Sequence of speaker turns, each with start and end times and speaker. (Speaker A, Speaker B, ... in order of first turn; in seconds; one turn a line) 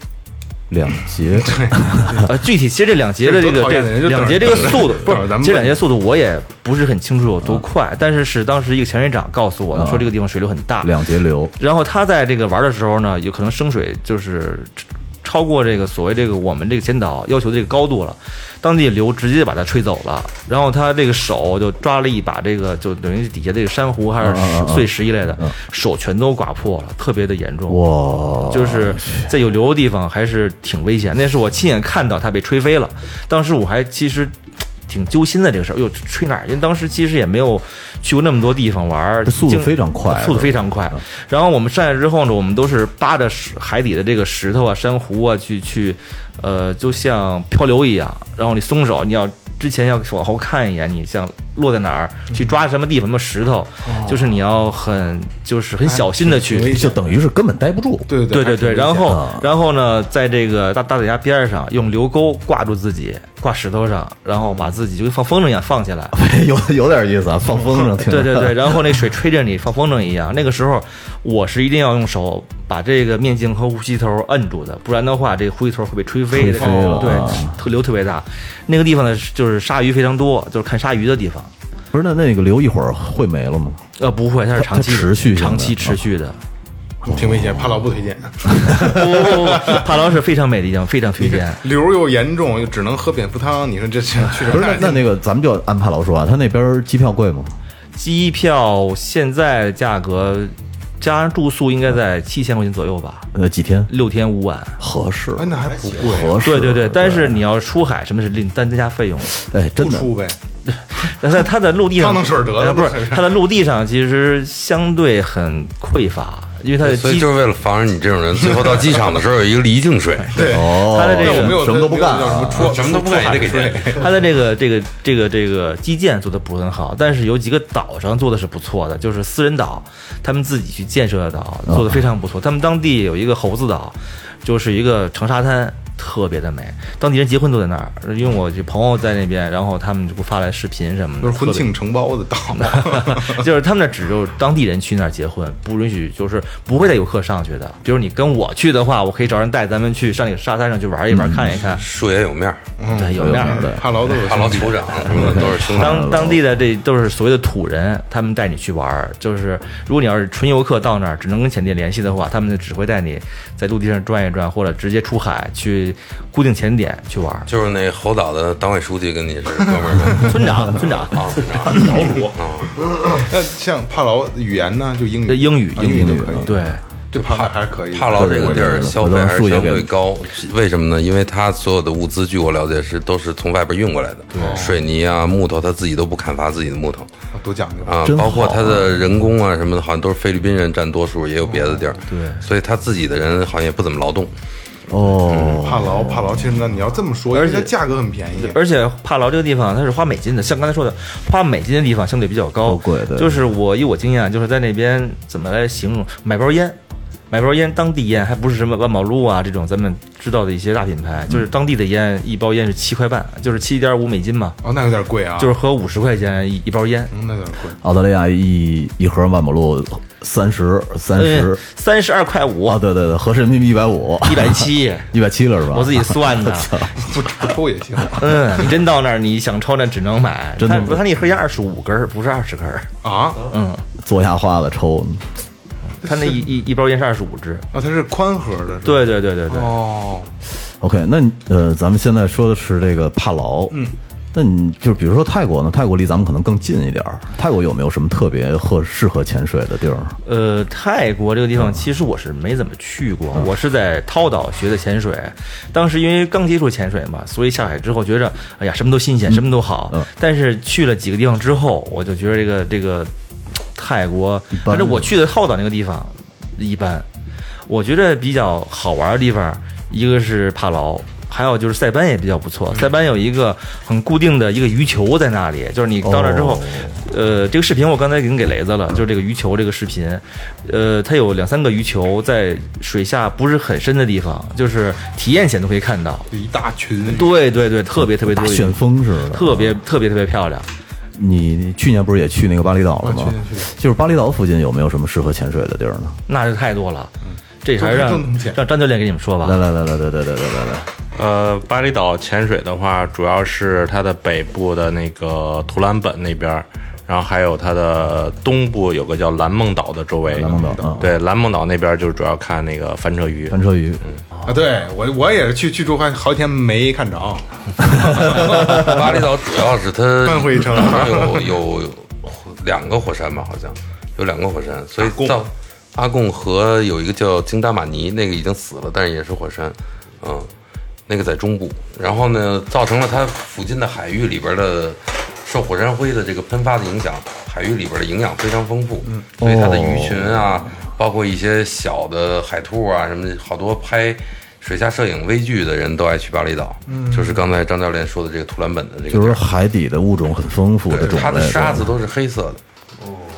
Speaker A: 0.7-2.3
Speaker B: 1.4-2.3
Speaker C: 2.2-10.9
Speaker B: 3.2-5.8
Speaker A: 9.7-10.1
Speaker A: 10.8-11.5
Speaker C: 11.6-27.8
Speaker A: 24.2-25.6
Speaker A: 27.7-29.3
Speaker C: 28.5-34.4
Speaker C: 34.9-56.8
Speaker A: 39.2-41.0
Speaker B: 53.9-54.2
Speaker B: 55.8-57.0
Speaker A: 56.7-58.3
Speaker B: 58.1-59.1
Speaker C: 58.3-66.1
Speaker A: 59.0-59.5
Speaker A: 66.1-69.0
Speaker C: 68.1-81.5
Speaker A: 76.3-77.6
Speaker B: 76.5-77.3
Speaker A: 81.9-83.8
Speaker C: 84.0-86.4
Speaker A: 84.6-86.0
Speaker A: 87.0-87.8
Speaker B: 87.0-89.8
Speaker A: 88.5-88.9
Speaker C: 88.8-91.6
Speaker B: 91.2-95.0
Speaker A: 94.5-97.5
Speaker C: 98.0-103.3
Speaker A: 103.3-103.9
Speaker C: 103.9-104.8
Speaker A: 104.8-107.4
Speaker B: 105.4-106.5
Speaker C: 106.4-109.4
Speaker A: 109.3-110.2
Speaker B: 109.8-110.4
Speaker C: 110.8-117.3
Speaker B: 111.9-113.4
Speaker D: 116.8-120.5
Speaker B: 120.3-124.1
Speaker A: 120.3-122.8
Speaker C: 120.6-121.6
Speaker D: 122.5-124.1
Speaker C: 123.9-141.7
Speaker A: 131.7-132.0
Speaker B: 141.2-143.4
Speaker C: 142.6-151.8
Speaker A: 151.1-151.7
Speaker D: 151.8-152.7
Speaker B: 152.8-155.4
Speaker C: 152.9-153.7
Speaker A: 153.1-153.9
Speaker D: 154.2-156.1
Speaker A: 155.1-156.4
Speaker C: 155.7-167.5
Speaker D: 167.5-170.3
Speaker C: 170.2-171.2
Speaker D: 171.1-172.7
Speaker B: 171.7-172.3
Speaker B: 173.0-176.6
Speaker C: 175.3-176.8
Speaker A: 175.8-176.6
Speaker B: 177.1-178.9
Speaker D: 177.2-187.1
Speaker A: 178.1-179.9
Speaker C: 184.3-184.6
Speaker B: 184.4-184.8
Speaker B: 187.3-188.0
Speaker D: 187.8-194.3
Speaker A: 188.0-189.1
Speaker B: 191.4-192.0
Speaker A: 194.9-196.7
Speaker D: 195.3-195.6
Speaker B: 195.5-198.6
Speaker C: 197.3-197.7
Speaker C: 198.3-206.8
Speaker A: 202.6-203.5
Speaker C: 207.3-214.6
Speaker B: 214.6-215.6
Speaker C: 215.4-217.1
Speaker B: 217.1-217.8
Speaker A: 217.8-221.6
Speaker C: 221.1-222.8
Speaker A: 222.7-226.9
Speaker C: 224.3-225.1
Speaker C: 225.7-226.9
Speaker B: 227.0-228.7
Speaker C: 228.2-233.8
Speaker A: 230.6-231.0
Speaker B: 233.0-233.5
Speaker A: 234.0-235.3
Speaker C: 236.0-237.7
Speaker B: 236.1-236.4
Speaker B: 237.7-240.3
Speaker C: 238.8-239.8
Speaker A: 240.8-250.2
Speaker B: 243.7-244.0
Speaker C: 250.2-263.1
Speaker A: 259.3-260.1
Speaker C: 263.8-267.1
Speaker A: 264.5-265.1
Speaker C: 267.7-286.3
Speaker A: 276.0-277.0
Speaker B: 286.3-287.4
Speaker C: 287.1-290.7
Speaker A: 287.9-289.8
Speaker A: 291.2-296.2
Speaker B: 293.0-293.7
Speaker C: 296.3-297.1
Speaker B: 297.3-298.6
Speaker C: 297.6-299.6
Speaker A: 299.4-300.9
Speaker E: 301.1-313.6
Speaker B: 310.3-311.1
Speaker A: 310.4-311.1
Speaker A: 313.5-314.0
Speaker B: 314.4-319.1
Speaker D: 318.2-330.5
Speaker B: 320.2-321.5
Speaker D: 331.1-349.4
Speaker A: 339.4-340.7
Speaker B: 346.9-347.4
Speaker A: 349.1-351.9
Speaker D: 350.9-352.6